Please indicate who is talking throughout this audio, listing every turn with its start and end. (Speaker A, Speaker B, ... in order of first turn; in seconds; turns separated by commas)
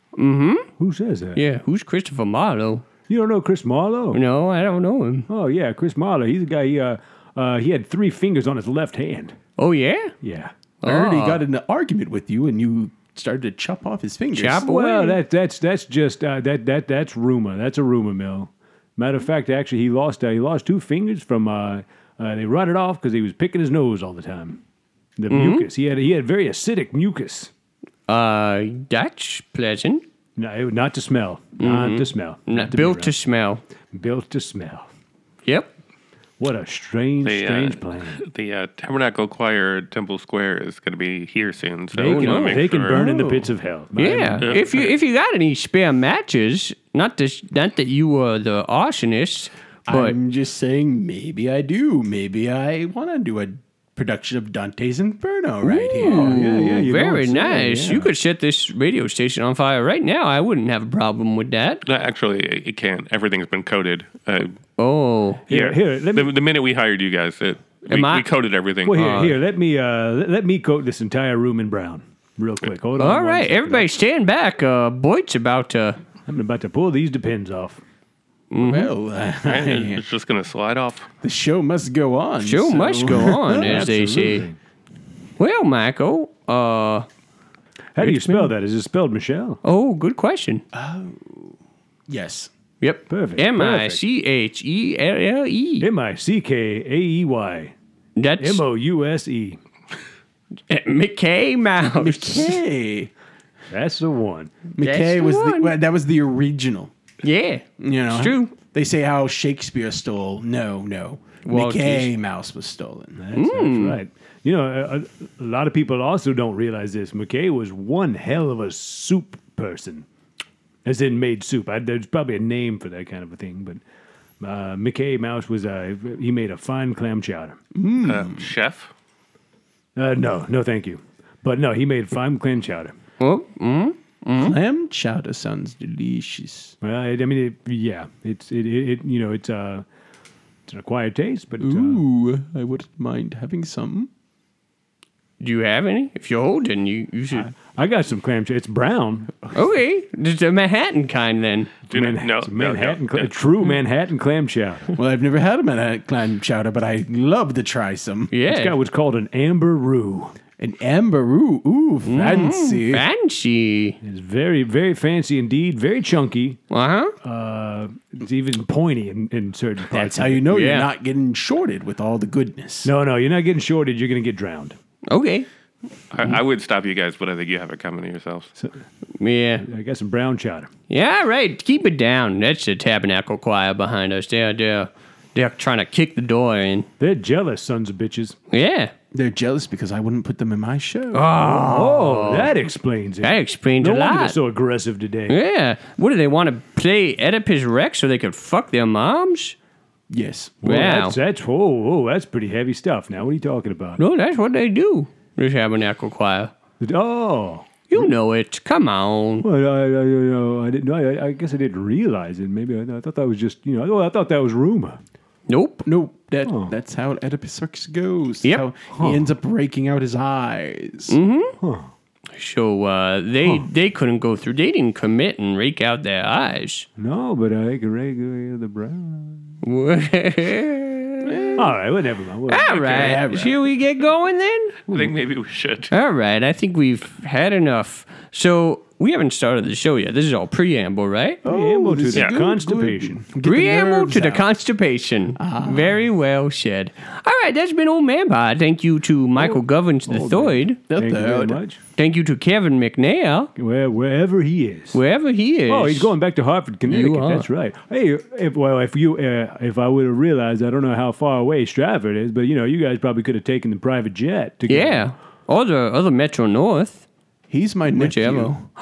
Speaker A: 0.1-0.7, Speaker B: 0.8-1.4, Speaker A: 1.3-2.8, Speaker B: 3.1-4.2, Speaker A: 4.1-5.3, Speaker B: 5.3-9.3, Speaker A: 9.6-10.1, Speaker B: 10.2-10.5, Speaker A: 10.8-11.4, Speaker C: 10.8-14.6, Speaker A: 14.3-15.2, Speaker B: 14.5-24.6, Speaker B: 25.2-27.5, Speaker A: 25.3-25.7, Speaker A: 28.1-30.0, Speaker B: 30.4-33.1, Speaker A: 31.6-33.6, Speaker B: 33.9-34.9, Speaker A: 35.4-35.7, Speaker B: 36.4-38.2, Speaker D: 37.2-43.0, Speaker B: 41.9-44.6, Speaker A: 42.0-42.6, Speaker C: 42.9-43.5, Speaker A: 44.0-50.1, Speaker D: 44.4-44.9, Speaker C: 49.9-56.8, Speaker A: 55.6-61.8, Speaker B: 56.0-58.1, Speaker D: 61.9-64.5, Speaker A: 64.8-65.4, Speaker B: 65.5-66.3, Speaker D: 65.5-69.3, Speaker A: 67.9-68.3, Speaker B: 68.8-73.9, Speaker A: 68.9-69.3, Speaker A: 73.0-76.0, Speaker B: 76.2-77.8, Speaker A: 78.5-78.9, Speaker C: 78.6-80.0, Speaker D: 79.4-81.1, Speaker C: 81.2-83.9, Speaker A: 82.4-84.5, Speaker B: 83.4-84.6, Speaker A: 85.4-87.1, Speaker B: 87.9-89.6, Speaker A: 88.0-88.5, Speaker A: 89.6-90.6, Speaker C: 90.7-91.5, Speaker C: 92.1-92.5, Speaker A: 92.8-95.9, Speaker B: 93.1-94.0, Speaker B: 95.8-97.7, Speaker A: 98.2-98.6, Speaker B: 98.4-99.6, Speaker A: 100.7-102.6, Speaker C: 102.0-103.1, Speaker B: 103.7-104.5, Speaker C: 104.8-106.9, Speaker A: 104.8-105.8, Speaker A: 107.2-108.5, Speaker C: 107.8-113.2, Speaker A: 111.4-112.1, Speaker B: 113.2-120.1, Speaker A: 113.3-114.0, Speaker B: 120.8-123.8, Speaker B: 124.4-127.6, Speaker C: 127.7-128.5, Speaker D: 128.0-128.9, Speaker B: 129.9-132.9, Speaker A: 133.2-134.6, Speaker C: 134.4-136.7, Speaker B: 136.8-139.8, Speaker B: 140.7-142.0, Speaker C: 141.6-144.1, Speaker A: 145.4-147.5, Speaker B: 147.4-149.3, Speaker A: 149.5-151.7, Speaker B: 151.9-154.9, Speaker D: 151.9-153.3, Speaker C: 154.9-158.3, Speaker A: 158.3-158.7, Speaker B: 158.5-160.3, Speaker C: 160.6-163.0, Speaker A: 162.0-164.0, Speaker B: 164.0-166.6, Speaker A: 166.7-167.1, Speaker B: 167.2-170.5, Speaker C: 169.9-172.9, Speaker A: 170.5-170.9, Speaker B: 172.8-174.8, Speaker A: 175.1-175.5, Speaker D: 176.1-178.5, Speaker A: 179.2-179.7, Speaker B: 179.6-180.7, Speaker A: 180.9-186.9, Speaker B: 187.0-188.4, Speaker A: 188.5-188.9, Speaker C: 189.1-191.4, Speaker A: 191.1-192.5, Speaker B: 191.4-195.4, Speaker A: 193.2-194.4, Speaker A: 195.3-199.6, Speaker C: 200.1-200.6, Speaker B: 200.6-204.0, Speaker A: 200.6-201.2, Speaker A: 204.0-206.5, Speaker B: 206.8-208.1, Speaker A: 207.9-209.4, Speaker B: 209.4-215.0, Speaker A: 215.5-215.8, Speaker C: 215.8-221.2, Speaker B: 216.4-216.7, Speaker B: 218.9-219.3, Speaker A: 221.1-221.6, Speaker B: 221.6-221.9, Speaker A: 222.3-226.9, Speaker B: 223.4-223.7, Speaker B: 227.0-229.5, Speaker A: 229.6-231.6, Speaker C: 231.2-231.7, Speaker B: 231.6-232.8, Speaker A: 232.5-234.8, Speaker D: 232.7-233.2, Speaker C: 232.8-233.6, Speaker B: 234.9-235.1, Speaker D: 234.9-235.9, Speaker A: 235.9-241.4, Speaker B: 241.4-243.2, Speaker C: 241.4-244.5, Speaker D: 242.1-242.4, Speaker A: 243.4-250.8, Speaker C: 245.4-246.0, Speaker B: 249.4-251.8, Speaker C: 250.9-251.6, Speaker A: 251.9-253.5, Speaker B: 253.6-255.0, Speaker A: 254.9-256.1, Speaker B: 255.7-265.1, Speaker A: 256.9-257.4, Speaker A: 264.7-267.1, Speaker C: 267.5-268.7, Speaker A: 267.9-268.6